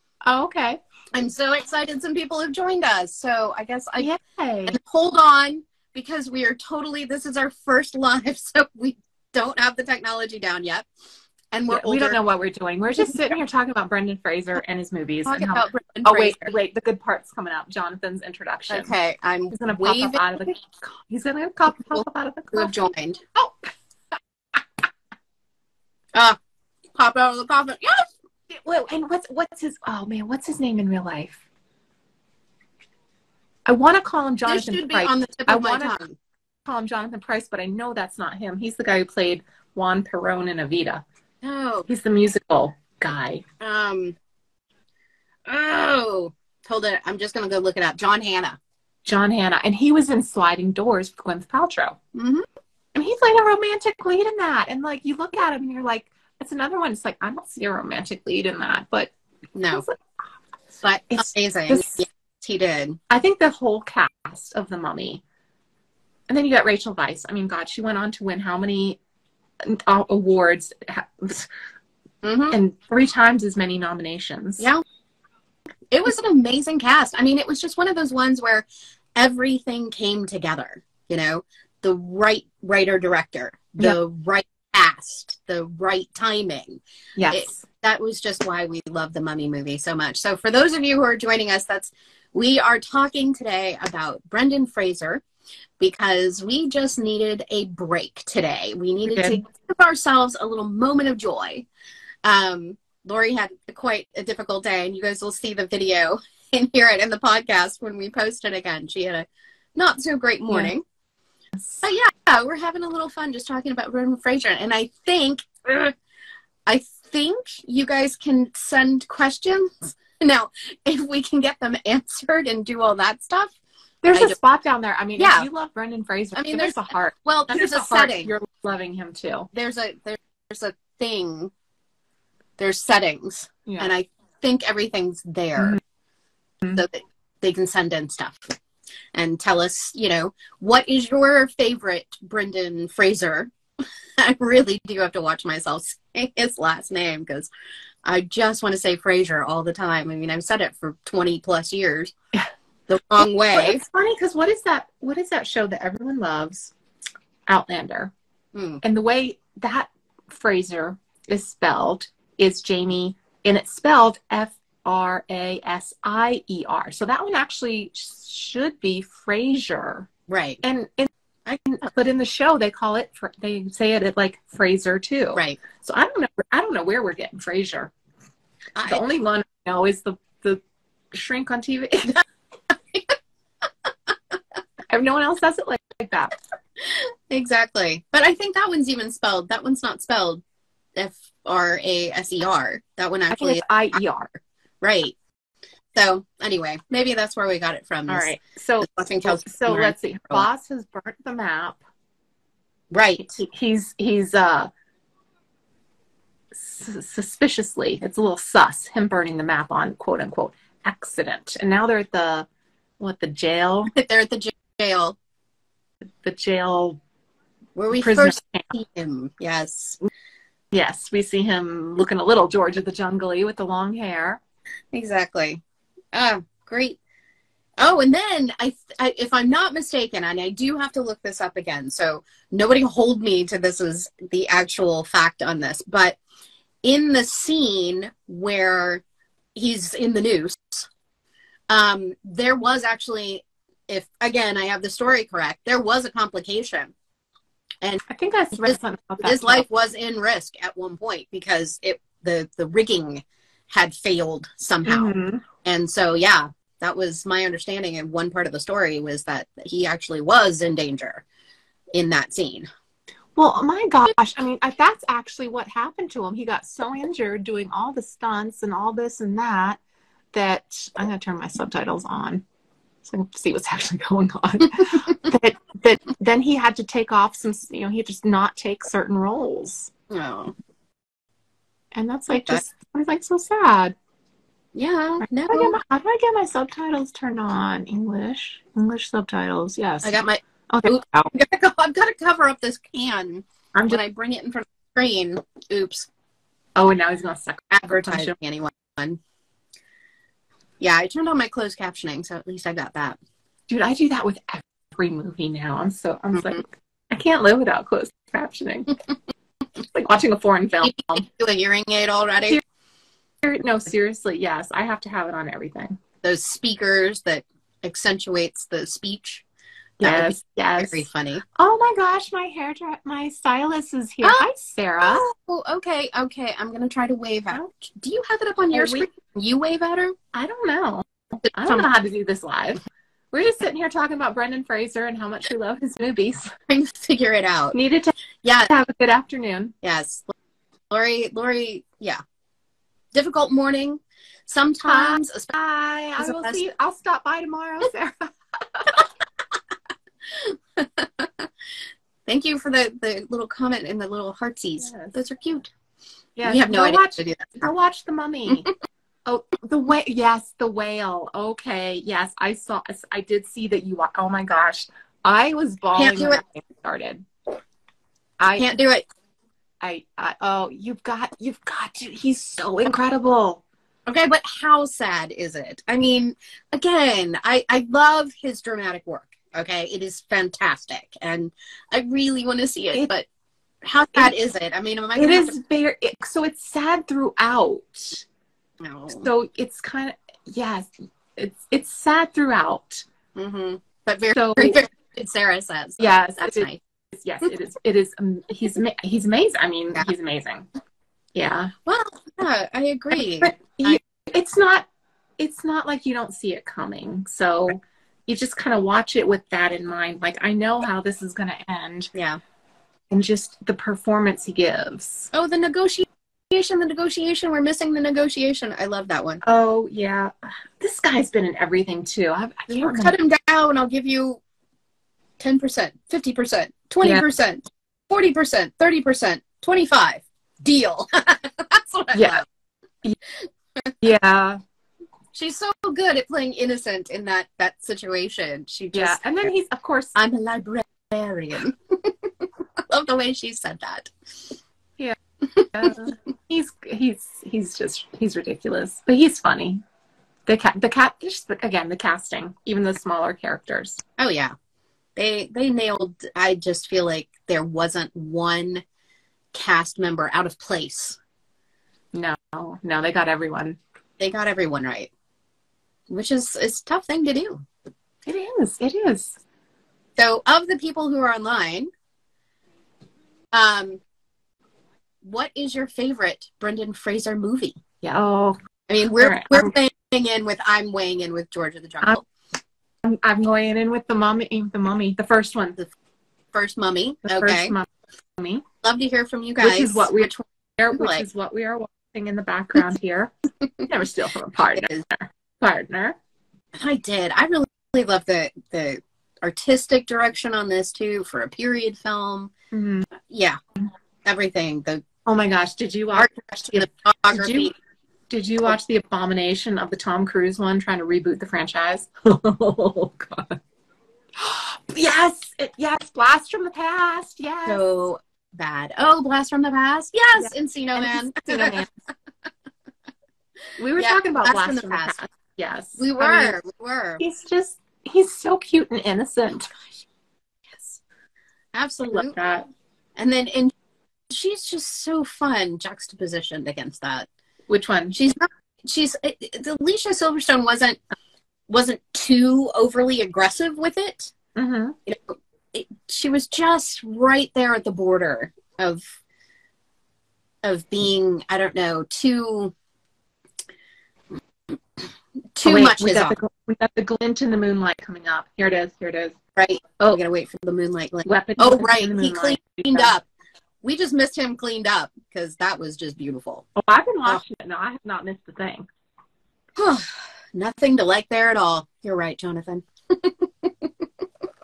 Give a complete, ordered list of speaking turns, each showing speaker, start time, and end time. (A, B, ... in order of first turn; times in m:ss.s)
0:00.2-0:00.8 A
0:01.1-0:04.1 B
0:04.0-0:04.8 A
0:04.7-0:10.9 B
0:11.5-0:12.2 B
0:11.7-0:18.9 A
0:15.2-0:16.5 B
0:18.7-0:20.2 B
0:19.5-0:22.7 A
0:21.9-0:23.2 B
0:23.4-0:23.7 A
0:26.9-0:28.1 B
0:28.5-0:31.4 A
0:33.6-0:36.0 A
0:34.5-0:36.1 B
0:36.6-0:41.0 A
0:41.4-0:41.9 B
0:41.9-0:43.4 A
0:43.6-0:44.2 B
0:45.5-0:48.6 B
0:49.0-0:52.0 A
0:52.1-0:52.5 B
0:52.9-0:59.1 A
0:59.6-0:59.8 B
0:59.7-1:00.0 A
1:00.8-1:03.0 B
1:01.1-1:02.0 A
1:03.1-1:05.2 A
1:06.3-1:09.0 A
1:09.6-1:11.5 A
1:12.2-1:12.6 B
1:12.5-1:14.7 A
1:15.9-1:18.6 B
1:19.2-1:26.8 B
1:27.2-1:27.6 A
1:27.3-1:35.2 B
1:35.8-1:41.7 B
1:39.1-1:39.4 A
1:42.2-1:50.8 B
1:51.8-1:55.9 B
1:56.6-2:03.6 B
2:04.0-2:09.5 A
2:05.2-2:05.5 B
2:06.4-2:08.3 B
2:09.5-2:11.5 B
2:12.6-2:15.8 B
2:16.7-2:18.4 B
2:19.1-2:23.5 B
2:24.2-2:27.5 B
2:28.0-2:32.1 B
2:32.9-2:33.8 B
2:33.2-2:36.7 A
2:37.5-2:38.1 A
2:38.5-2:38.8 B
2:38.8-2:50.1 A
2:50.3-2:50.6 B
2:50.6-2:51.1 A
2:51.6-2:57.9 A
2:58.8-2:59.0 B
2:58.9-3:00.6 A
3:01.1-3:02.2 A
3:04.9-3:06.4 A
3:06.8-3:10.4 B
3:11.0-3:14.0 B
3:13.3-3:14.3 A
3:14.8-3:15.2 B
3:15.9-3:20.5 B
3:18.1-3:21.8 A
3:22.9-3:23.3 B
3:23.2-3:24.7 A
3:26.6-3:32.5 A
3:33.0-3:33.9 A
3:33.9-3:35.2 B
3:36.2-3:37.0 A
3:37.8-3:40.0 B
3:37.9-3:38.7 A
3:40.7-3:44.4 A
3:44.9-3:45.6 B
3:46.1-3:47.0 B
3:47.8-3:56.2 B
3:56.8-3:59.0 B
3:59.6-4:00.9 B
4:01.7-4:06.9 B
4:08.1-4:09.6 A
4:08.6-4:21.2 B
4:14.8-4:15.4 A
4:21.9-4:22.7 B
4:23.4-4:29.8 A
4:30.3-4:32.4 A
4:33.0-4:39.9 A
4:40.1-4:40.5 B
4:41.9-4:43.9 A
4:42.3-4:42.6 B
4:44.7-4:45.8 B
4:45.2-4:51.3 A
4:50.0-4:56.1 B
4:53.7-4:54.0 A
4:56.8-4:58.4 A
4:57.7-4:59.2 B
5:00.8-5:03.2 B
5:03.7-5:09.0 A
5:09.9-5:11.2 A
5:10.8-5:12.6 B
5:13.4-5:16.0 A
5:16.2-5:19.4 B
5:20.0-5:21.4 B
5:20.0-5:25.2 A
5:25.0-5:30.1 B
5:28.7-5:29.1 A
5:30.3-5:32.8 A
5:33.3-5:36.5 A
5:36.7-5:37.8 B
5:37.7-5:38.1 A
5:38.4-5:38.7 B
5:38.7-5:39.7 A
5:39.8-5:40.3 B
5:40.9-5:42.2 B
5:43.1-5:45.5 B
5:44.8-5:49.1 A
5:46.2-5:46.6 B
5:50.3-5:51.5 B
5:52.3-5:55.7 B
5:54.8-5:55.2 A
5:56.4-5:58.7 A
5:56.4-5:57.6 B
5:59.2-6:07.2 A
6:06.0-6:06.4 B
6:08.4-6:08.7 A
6:08.6-6:09.0 B
6:09.8-6:13.6 A
6:14.1-6:23.3 B
6:23.8-6:25.6 B
6:25.2-6:28.2 A
6:28.8-6:29.3 B
6:29.1-6:33.0 A
6:33.4-6:36.8 B
6:34.3-6:34.8 A
6:36.0-6:40.7 A
6:41.4-6:41.7 A
6:41.9-6:44.0 B
6:43.1-6:44.9 A
6:45.4-6:52.1 A
6:52.1-6:52.4 B
6:53.1-6:55.3 A
6:55.3-6:59.4 B
6:59.4-7:03.1 A
7:02.7-7:04.4 B
7:05.4-7:12.4 B
7:12.1-7:12.4 A
7:13.4-7:13.9 B
7:14.0-7:14.6 A
7:15.3-7:19.2 B
7:18.9-7:20.1 A
7:20.1-7:24.1 B
7:25.6-7:25.9 B
7:25.7-7:29.8 A
7:30.4-7:34.0 A
7:34.2-7:34.5 B
7:35.2-7:38.8 B
7:39.5-7:41.2 B
7:42.1-7:43.8 A
7:44.2-7:45.1 B
7:46.1-7:47.6 B
7:48.2-7:49.4 A
7:50.2-7:51.9 B
7:53.5-7:54.0 B
7:55.2-7:57.8 B
7:58.0-7:58.6 A
7:58.9-8:02.2 B
7:59.2-7:59.7 A
8:03.0-8:05.8 A
8:06.5-8:07.7 B
8:07.2-8:08.6 A
8:08.8-8:10.3 B
8:09.6-8:13.3 A
8:10.9-8:11.2 B
8:13.8-8:16.2 A
8:16.8-8:22.5 B
8:22.7-8:23.1 A
8:23.2-8:23.6 B
8:24.2-8:25.0 B
8:25.2-8:27.7 A
8:26.1-8:27.7 B
8:28.3-8:33.6 A
8:34.4-8:37.8 A
8:37.6-8:41.8 B
8:40.4-8:41.9 A
8:43.8-8:46.6 A
8:44.0-8:45.2 B
8:46.0-8:47.2 B
8:47.2-8:49.7 A
8:50.7-8:51.0 B
8:51.7-8:52.3 B
8:52.1-8:52.7 A
8:53.2-8:53.7 B
8:54.3-8:57.3 B
8:57.7-8:58.2 A
8:58.1-9:01.0 B
9:01.7-9:04.3 B
9:04.6-9:05.0 A
9:05.1-9:09.0 B
9:10.6-9:12.7 B
9:15.6-9:16.4 B
9:15.6-9:19.4 A
9:19.6-9:23.2 B
9:21.2-9:23.1 A
9:23.8-9:26.6 B
9:26.8-9:28.9 A
9:29.8-9:33.9 B